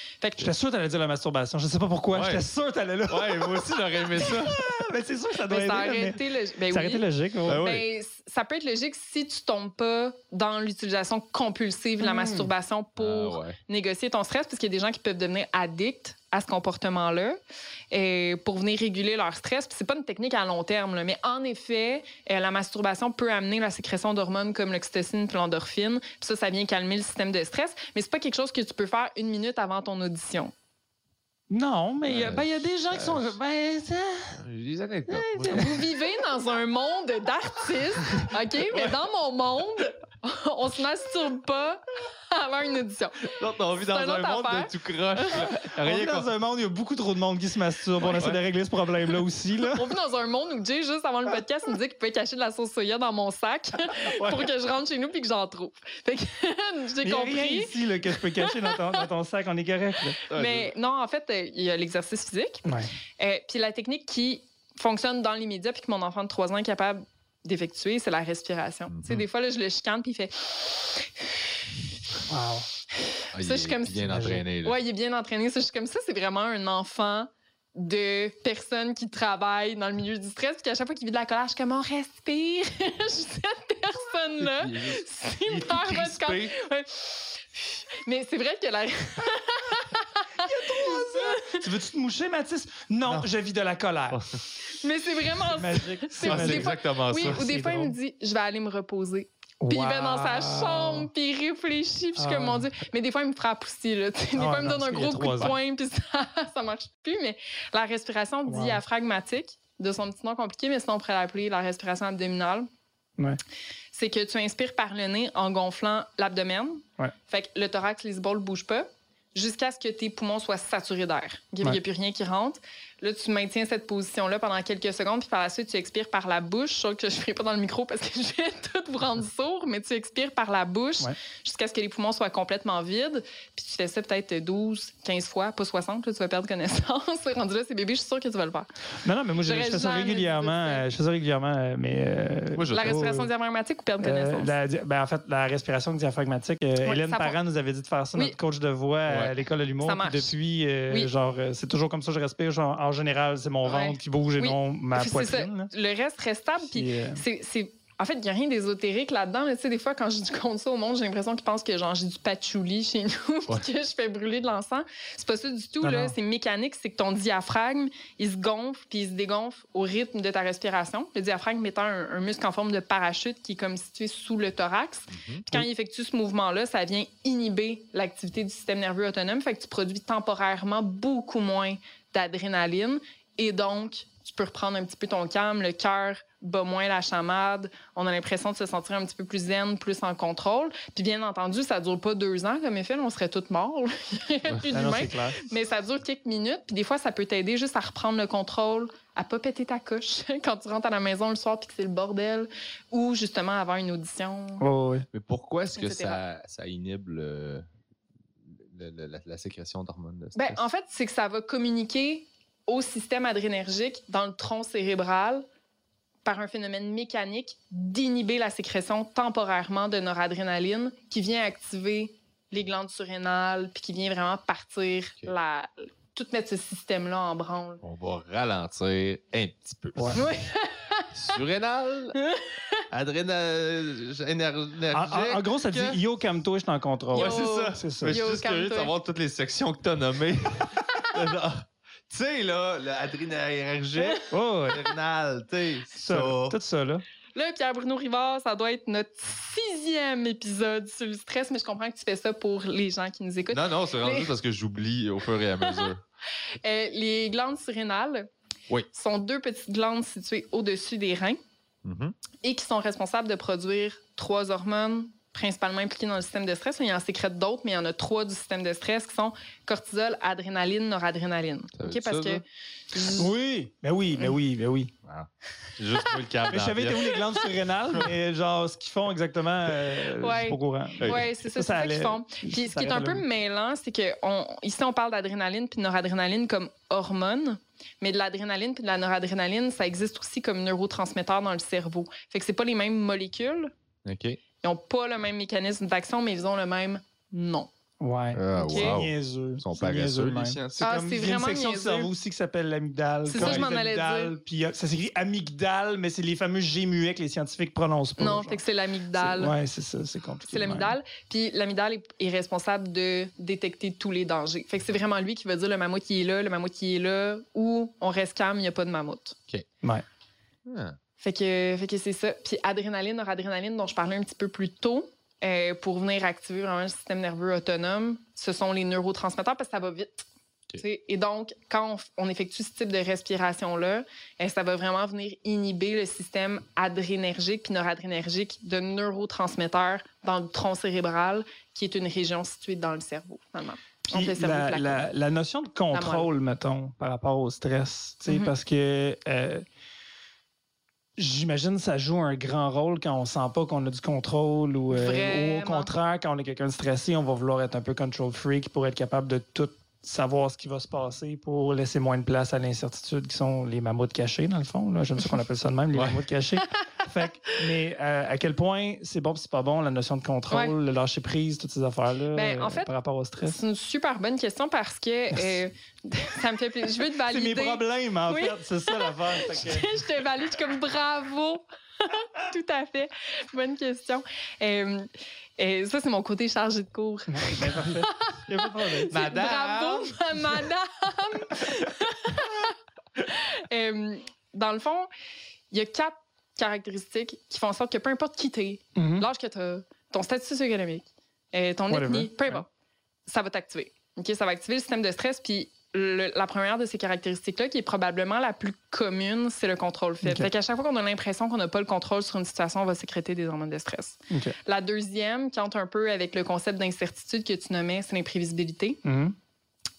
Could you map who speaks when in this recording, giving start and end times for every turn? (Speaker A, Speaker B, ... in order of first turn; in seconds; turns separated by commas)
Speaker A: 0.2-0.5, Speaker B: 0.4-7.6, Speaker C: 2.1-2.4, Speaker C: 3.1-4.6, Speaker A: 5.5-17.4, Speaker C: 7.5-7.9, Speaker B: 12.0-12.5, Speaker C: 13.0-13.6, Speaker A: 17.9-30.5, Speaker B: 31.5-34.4, Speaker C: 32.1-33.3, Speaker C: 34.4-35.8, Speaker B: 35.4-35.8, Speaker A: 35.4-45.4, Speaker C: 38.1-38.9, Speaker C: 43.2-46.3, Speaker B: 45.4-49.9, Speaker A: 48.0-48.3, Speaker A: 49.7-59.0, Speaker B: 54.2-54.5, Speaker B: 57.0-60.2, Speaker A: 60.2-62.6, Speaker C: 60.3-60.7, Speaker B: 62.6-62.9, Speaker A: 63.2-71.3, Speaker C: 68.9-69.2, Speaker B: 72.3-72.7, Speaker A: 73.0-91.7, Speaker C: 73.3-74.8, Speaker B: 74.1-74.4, Speaker C: 84.4-86.5, Speaker B: 90.4-94.2, Speaker C: 94.1-94.4, Speaker A: 94.7-112.7, Speaker B: 95.5-96.7, Speaker C: 96.2-97.4, Speaker B: 97.2-98.0, Speaker B: 99.6-101.1, Speaker B: 102.2-102.7, Speaker B: 104.3-105.5, Speaker B: 108.5-108.8, Speaker A: 113.9-138.7, Speaker B: 139.0-143.3, Speaker A: 139.4-140.8, Speaker C: 142.5-143.0, Speaker A: 142.7-144.6, Speaker B: 144.0-155.7, Speaker A: 146.8-147.4, Speaker C: 149.1-149.3, Speaker A: 149.8-150.3, Speaker A: 153.7-204.7, Speaker B: 156.6-157.2, Speaker B: 165.8-166.2, Speaker C: 175.1-175.4, Speaker B: 194.7-195.4, Speaker B: 204.6-205.1, Speaker C: 205.1-207.7, Speaker A: 205.8-206.2, Speaker C: 208.5-210.6, Speaker A: 210.4-215.4, Speaker A: 216.2-227.8, Speaker C: 227.8-230.3, Speaker B: 230.0-230.2, Speaker A: 230.1-231.1, Speaker C: 231.1-232.2, Speaker A: 232.2-232.8, Speaker C: 232.9-236.0, Speaker B: 234.9-238.2, Speaker A: 237.1-238.9, Speaker C: 237.1-246.6, Speaker B: 244.3-244.8, Speaker B: 246.0-247.0, Speaker A: 247.3-254.3, Speaker C: 253.5-256.0, Speaker A: 256.6-258.3, Speaker A: 258.9-261.4, Speaker C: 261.8-262.1, Speaker A: 262.4-273.3, Speaker C: 271.8-272.4, Speaker B: 273.2-274.9, Speaker C: 275.0-277.1, Speaker B: 276.5-283.2, Speaker A: 280.2-293.7, Speaker C: 281.0-281.3, Speaker C: 294.1-294.4, Speaker A: 294.6-297.7, Speaker B: 298.0-308.6, Speaker C: 298.3-300.9, Speaker A: 298.6-299.0, Speaker A: 300.8-302.1, Speaker A: 303.3-304.4, Speaker C: 303.4-303.7, Speaker A: 308.2-309.6, Speaker B: 309.1-311.0, Speaker A: 310.5-319.4, Speaker C: 320.7-321.0, Speaker A: 321.2-330.3, Speaker A: 330.8-345.1, Speaker B: 344.1-349.6, Speaker A: 345.9-346.3, Speaker A: 348.3-348.5, Speaker B: 351.2-373.6, Speaker A: 354.9-355.9, Speaker C: 365.9-366.2, Speaker A: 366.6-367.7, Speaker A: 372.3-372.9, Speaker A: 373.4-395.1, Speaker B: 375.3-375.6, Speaker B: 377.2-379.9, Speaker B: 387.3-389.5, Speaker C: 389.1-390.1, Speaker A: 395.7-402.7, Speaker B: 399.0-399.3, Speaker B: 401.9-402.6, Speaker A: 403.3-419.0, Speaker B: 410.2-410.5, Speaker B: 419.1-419.4